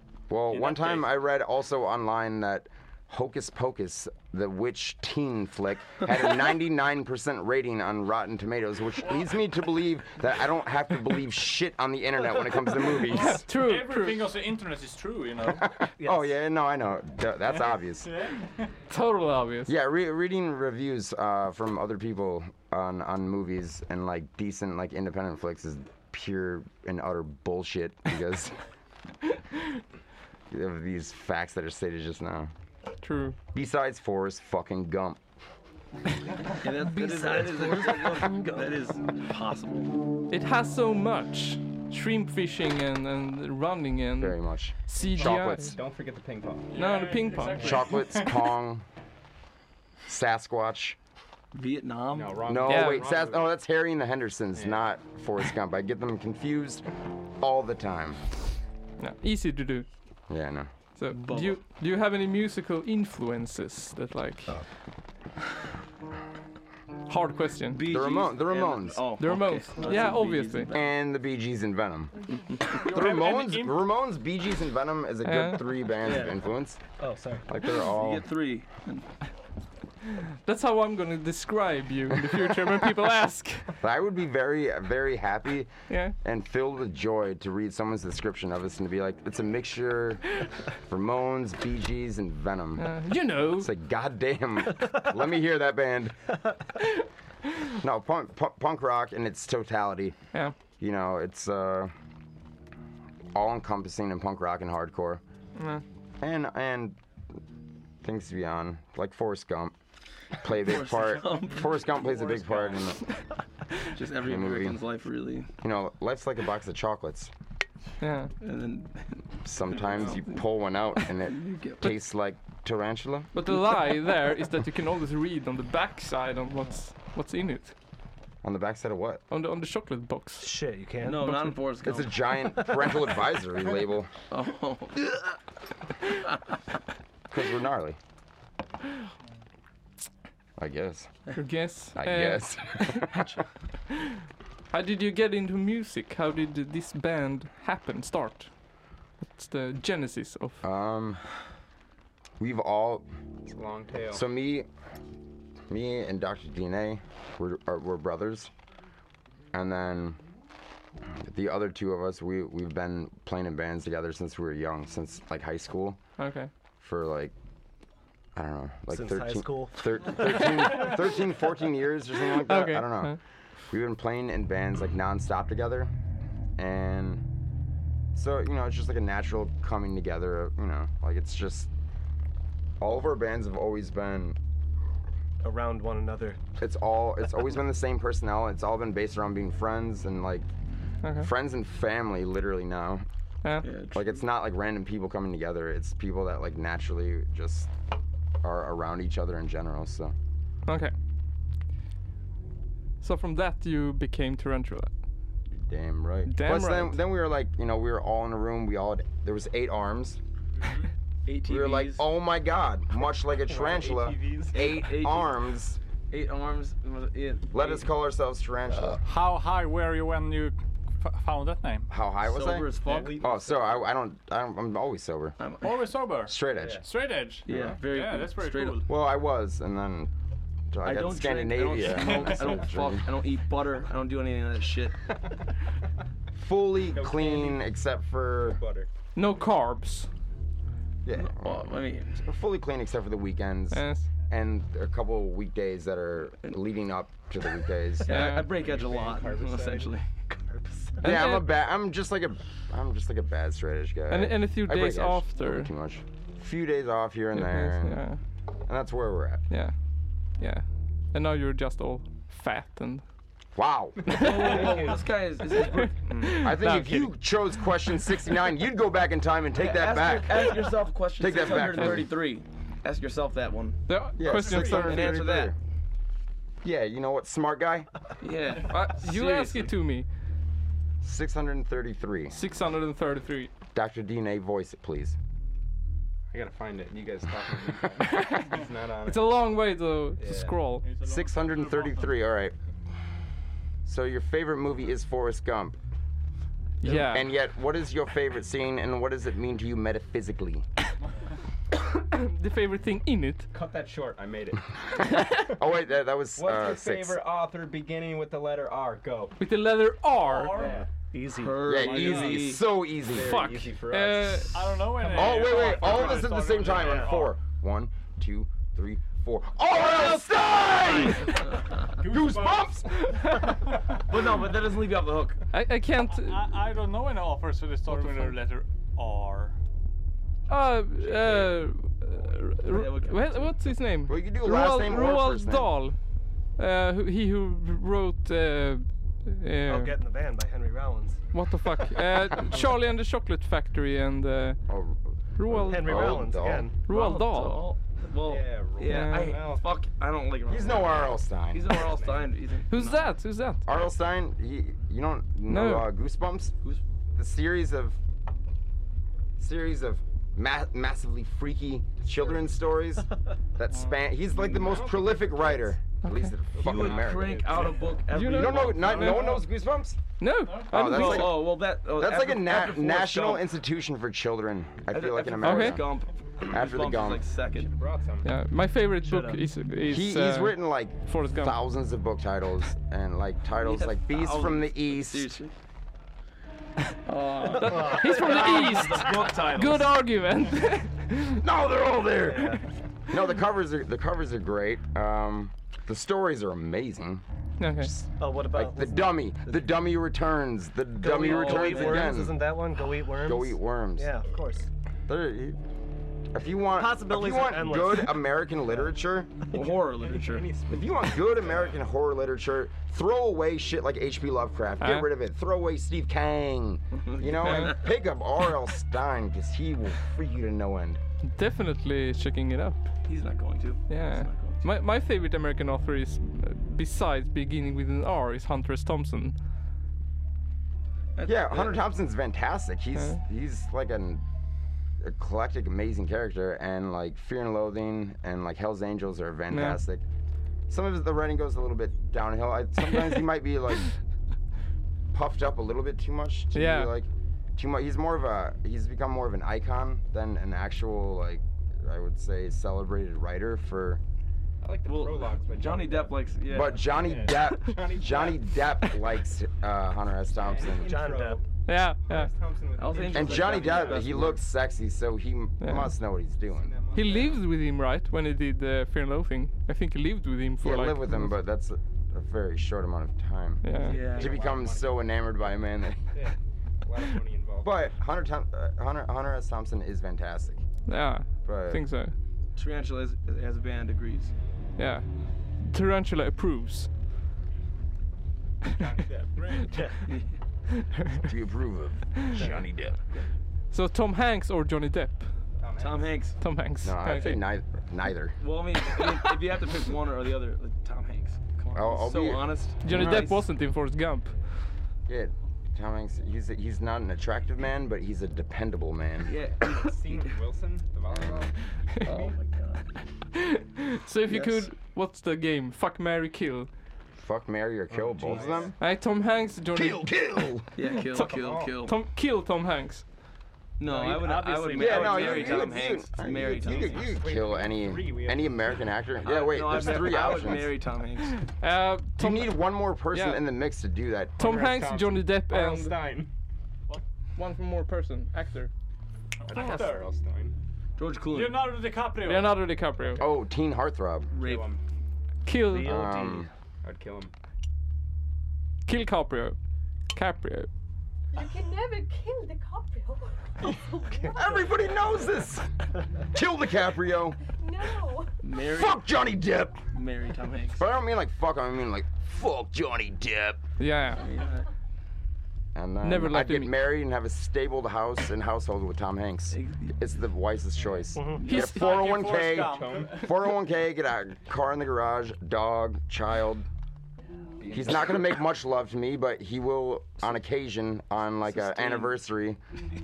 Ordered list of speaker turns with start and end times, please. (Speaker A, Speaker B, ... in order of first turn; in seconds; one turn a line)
Speaker A: 0.3-13.4
Speaker B: 0.5-1.1
Speaker B: 9.0-9.4
Speaker B: 12.9-15.6
Speaker C: 13.1-14.3
Speaker A: 15.5-18.1
Speaker D: 16.0-16.3
Speaker B: 18.0-18.6
Speaker C: 18.9-19.7
Speaker A: 19.7-28.6
Speaker A: 30.5-32.5
Speaker C: 33.0-33.4
Speaker A: 33.5-35.2
Speaker E: 36.6-39.9
Speaker C: 40.3-45.8
Speaker A: 44.2-45.8
Speaker F: 45.1-46.7
Speaker B: 46.7-48.5
Speaker C: 46.7-47.9
Speaker A: 47.6-48.8
Speaker A: 50.1-51.0
Speaker E: 51.5-52.5
Speaker F: 52.1-53.5
Speaker A: 52.4-56.8
Speaker C: 52.7-53.2
Speaker A: 57.4-58.2
Speaker C: 59.0-59.9
Speaker A: 60.3-60.7
Speaker C: 61.0-64.5
Speaker E: 61.1-61.6
Speaker C: 67.1-67.8
Speaker E: 67.7-70.9
Speaker A: 67.8-69.1
Speaker C: 69.2-70.7
Speaker A: 70.7-72.1
Speaker B: 72.7-73.8
Speaker A: 72.9-76.8
Speaker C: 75.2-75.6
Speaker F: 76.0-76.3
Speaker F: 77.0-77.5
Speaker A: 77.5-78.2
Speaker E: 77.8-79.1
Speaker C: 80.4-83.7
Speaker A: 83.8-85.7
Speaker C: 85.9-86.1
Speaker A: 86.2-92.9
Speaker C: 92.8-93.7
Speaker A: 93.5-96.2
Speaker A: 97.8-100.2
Speaker A: 100.8-101.9
Speaker A: 103.3-105.2
Speaker C: 105.6-105.8
Speaker A: 106.2-107.0
Speaker A: 108.0-109.7
Speaker A: 110.4-113.0
Speaker E: 110.6-111.6
Speaker B: 111.9-112.6
Speaker E: 113.9-115.5
Speaker A: 114.2-114.8
Speaker A: 115.6-117.3
Speaker C: 118.0-118.3
Speaker E: 118.4-119.2
Speaker A: 119.4-123.3
Speaker E: 119.7-120.3
Speaker E: 121.3-121.9
Speaker C: 123.3-127.7
Speaker A: 128.4-129.2
Speaker C: 129.3-130.5
Speaker D: 130.4-131.3
Speaker E: 131.0-132.2
Speaker C: 131.2-131.6
Speaker A: 131.8-134.1
Speaker E: 134.3-135.2
Speaker A: 137.3-138.0
Speaker A: 140.6-141.1
Speaker C: 141.3-143.1
Speaker A: 141.9-143.2
Speaker C: 144.7-148.5
Speaker C: 149.3-150.6
Speaker A: 150.6-151.2
Speaker A: 152.4-153.1
Speaker F: 153.4-154.2
Speaker A: 154.1-154.7
Speaker A: 155.7-158.5
Speaker A: 159.5-160.2
Speaker A: 161.2-166.0
Speaker C: 166.2-166.5
Speaker A: 166.8-167.3
Speaker A: 168.3-173.1
Speaker D: 168.9-170.5
Speaker C: 172.4-173.2
Speaker A: 173.7-175.9
Speaker A: 176.6-177.2
Speaker A: 178.1-181.7
Speaker A: 182.8-184.3
Speaker D: 185.4-186.4
Speaker A: 186.6-190.5
Speaker C: 191.0-191.3
Speaker A: 191.1-193.1
Speaker C: 193.4-193.7
Speaker E: 193.6-194.2
Speaker A: 193.9-197.7
Speaker A: 198.4-200.1
Speaker C: 200.7-200.9
Speaker C: 203.0-204.9
Speaker A: 205.6-210.2
Speaker C: 206.3-207.0
Speaker F: 210.6-210.9
Speaker E: 211.2-212.0
Speaker A: 211.5-215.8
Speaker F: 213.4-214.6
Speaker E: 214.5-215.4
Speaker E: 216.1-217.9
Speaker A: 217.5-219.0
Speaker B: 219.0-221.9
Speaker A: 221.9-225.4
Speaker E: 222.2-223.2
Speaker F: 222.8-223.9
Speaker E: 225.4-225.7
Speaker B: 225.6-228.9
Speaker A: 226.3-226.8
Speaker F: 226.5-226.9
Speaker E: 227.4-228.8
Speaker A: 228.9-230.1
Speaker A: 230.7-233.1
Speaker E: 230.8-235.0
Speaker A: 236.3-238.6
Speaker F: 236.8-237.7
Speaker F: 238.5-238.9
Speaker C: 239.2-240.1
Speaker A: 241.0-248.1
Speaker E: 241.1-242.2
Speaker C: 243.7-244.1
Speaker E: 248.0-250.3
Speaker C: 248.1-248.5
Speaker F: 248.4-249.9
Speaker A: 251.0-258.0
Speaker C: 251.0-251.5
Speaker C: 254.1-255.7
Speaker C: 257.3-258.2
Speaker A: 258.7-259.4
Speaker C: 260.4-263.0
Speaker A: 263.6-264.2
Speaker C: 264.1-264.7
Speaker E: 264.1-266.4
Speaker F: 264.1-265.0
Speaker C: 265.6-267.2
Speaker A: 266.3-270.6
Speaker E: 269.5-273.8
Speaker A: 271.2-272.1
Speaker C: 273.9-275.2
Speaker A: 274.2-275.6
Speaker B: 274.2-274.9
Speaker E: 274.8-275.5
Speaker A: 276.6-277.9
Speaker E: 278.2-279.8
Speaker C: 278.6-280.1
Speaker A: 281.0-282.4
Speaker C: 282.3-283.5
Speaker A: 283.7-285.1
Speaker F: 286.3-289.4
Speaker C: 288.0-288.4
Speaker C: 289.1-290.8
Speaker F: 290.2-290.6
Speaker B: 290.8-292.1
Speaker A: 291.0-292.5
Speaker A: 293.9-295.8
Speaker C: 296.8-297.3
Speaker A: 296.9-300.6
Speaker C: 301.9-303.4
Speaker F: 303.5-304.6
Speaker A: 305.5-307.2
Speaker F: 306.4-309.4
Speaker C: 309.4-310.7
Speaker B: 310.2-310.8
Speaker F: 310.5-310.9
Speaker D: 311.1-311.7
Speaker E: 311.4-312.6
Speaker A: 311.6-313.3
Speaker F: 311.8-317.0
Speaker C: 313.1-314.6
Speaker B: 314.5-317.4
Speaker A: 315.1-321.3
Speaker F: 322.0-323.1
Speaker A: 322.1-323.3
Speaker E: 324.1-325.4
Speaker C: 325.5-326.5
Speaker B: 326.1-329.6
Speaker C: 327.9-328.4
Speaker C: 330.5-335.9
Speaker E: 331.0-331.6
Speaker E: 332.6-333.6
Speaker A: 334.1-335.7
Speaker C: 336.6-340.0
Speaker D: 339.6-341.2
Speaker C: 341.3-344.6
Speaker A: 344.7-346.7
Speaker C: 345.4-347.6
Speaker D: 345.6-346.8
Speaker E: 346.8-353.1
Speaker F: 348.2-349.7
Speaker C: 348.8-349.4
Speaker A: 350.5-351.7
Speaker F: 351.6-352.3
Speaker C: 352.7-353.6
Speaker A: 353.6-356.5
Speaker C: 355.5-355.9
Speaker A: 357.1-358.0
Speaker A: 359.4-367.4
Speaker F: 362.1-362.5
Speaker F: 364.3-365.8
Speaker C: 366.0-366.3
Speaker F: 366.5-367.9
Speaker E: 366.6-369.2
Speaker C: 368.1-369.3
Speaker A: 368.3-370.0
Speaker F: 369.0-369.4
Speaker C: 370.2-371.4
Speaker B: 370.4-371.1
Speaker A: 370.7-375.9
Speaker E: 370.9-373.4
Speaker E: 374.9-377.7
Speaker C: 375.4-375.8
Speaker A: 376.5-377.2
Speaker F: 377.5-378.3
Speaker C: 378.2-381.6
Speaker E: 379.0-379.4
Speaker A: 379.9-385.3
Speaker E: 383.6-385.5
Speaker E: 387.1-389.9
Speaker C: 387.6-391.5
Speaker A: 391.4-397.2
Speaker D: 392.2-392.6
Speaker C: 397.6-397.9
Speaker A: 397.8-402.4
Speaker D: 398.2-399.8
Speaker D: 401.0-404.7
Speaker E: 401.1-402.1
Speaker A: 403.2-404.2
Speaker A: 405.1-405.6
Speaker A: 406.3-409.4
Speaker D: 406.6-408.4
Speaker E: 409.5-410.6
Speaker F: 409.6-411.8
Speaker A: 410.7-421.0
Speaker C: 414.8-415.1
Speaker E: 416.9-417.9
Speaker C: 421.2-422.8
Speaker E: 423.1-424.7
Speaker C: 423.9-429.4
Speaker E: 431.1-431.8
Speaker A: 431.2-434.2
Speaker A: 435.0-440.0
Speaker C: 439.5-439.8
Speaker A: 440.7-443.9
Speaker A: 445.1-454.0
Speaker C: 446.5-446.9
Speaker F: 454.6-456.2
Speaker E: 454.9-456.9
Speaker A: 456.5-461.1
Speaker F: 456.9-458.5
Speaker F: 460.3-461.4
Speaker D: 460.8-461.4
Speaker C: 461.6-462.3
Speaker F: 462.0-464.3
Speaker E: 462.8-464.4
Speaker A: 463.1-466.8
Speaker C: 465.6-465.9
Speaker F: 466.5-467.4
Speaker C: 466.9-471.4
Speaker A: 470.6-476.1
Speaker C: 473.6-474.0
Speaker F: 473.8-475.4
Speaker E: 473.9-474.4
Speaker F: 476.1-477.9
Speaker A: 477.6-480.6
Speaker C: 480.9-482.1
Speaker A: 481.4-481.8
Speaker E: 482.5-484.3
Speaker C: 484.8-485.1
Speaker C: 485.6-486.9
Speaker F: 488.7-489.7
Speaker A: 491.2-493.0
Speaker C: 493.7-495.4
Speaker F: 495.6-496.2
Speaker E: 495.8-496.4
Speaker C: 496.4-497.4
Speaker A: 496.8-498.3
Speaker E: 498.4-503.4
Speaker A: 501.7-503.3
Speaker C: 502.8-504.3
Speaker A: 505.1-509.3
Speaker E: 509.3-510.2
Speaker F: 509.3-512.4
Speaker E: 511.1-511.4
Speaker E: 512.0-512.9
Speaker C: 513.4-516.7
Speaker E: 514.3-514.7
Speaker A: 517.2-518.7
Speaker F: 517.9-518.7
Speaker C: 518.8-520.1
Speaker A: 519.7-520.7
Speaker E: 520.7-522.0
Speaker C: 520.9-523.0
Speaker F: 521.1-521.8
Speaker E: 523.8-527.0
Speaker B: 523.8-525.6
Speaker A: 524.7-530.7
Speaker F: 526.4-528.9
Speaker E: 529.2-531.4
Speaker F: 529.8-530.5
Speaker C: 531.5-533.4
Speaker A: 532.2-534.4
Speaker C: 534.4-536.0
Speaker F: 534.4-536.3
Speaker C: 537.4-538.7
Speaker B: 539.4-540.0
Speaker F: 539.4-540.5
Speaker E: 541.0-541.7
Speaker B: 541.3-543.2
Speaker C: 542.2-543.2
Speaker A: 543.2-544.3
Speaker E: 544.3-544.7
Speaker F: 544.3-544.8
Speaker C: 545.5-546.0
Speaker D: 545.7-546.5
Speaker A: 545.8-546.5
Speaker F: 546.8-547.3
Speaker C: 548.9-549.5
Speaker C: 550.1-550.7
Speaker G: 551.3-555.3
Speaker A: 554.2-555.7
Speaker A: 556.3-557.4
Speaker G: 557.4-558.3
Speaker E: 558.4-559.0
Speaker A: 558.6-559.8
Speaker E: 559.9-560.9
Speaker A: 560.7-563.6
Speaker C: 563.8-564.2
Speaker E: 564.2-564.6
Speaker A: 565.7-576.6
Speaker C: 566.0-566.7
Speaker E: 569.5-570.0
Speaker F: 570.7-571.1
Speaker D: 571.1-571.4
Speaker B: 571.4-573.3
Speaker C: 571.5-571.8
Speaker F: 571.8-573.3
Speaker F: 577.6-578.3
Speaker A: 577.7-582.6
Speaker E: 581.4-582.1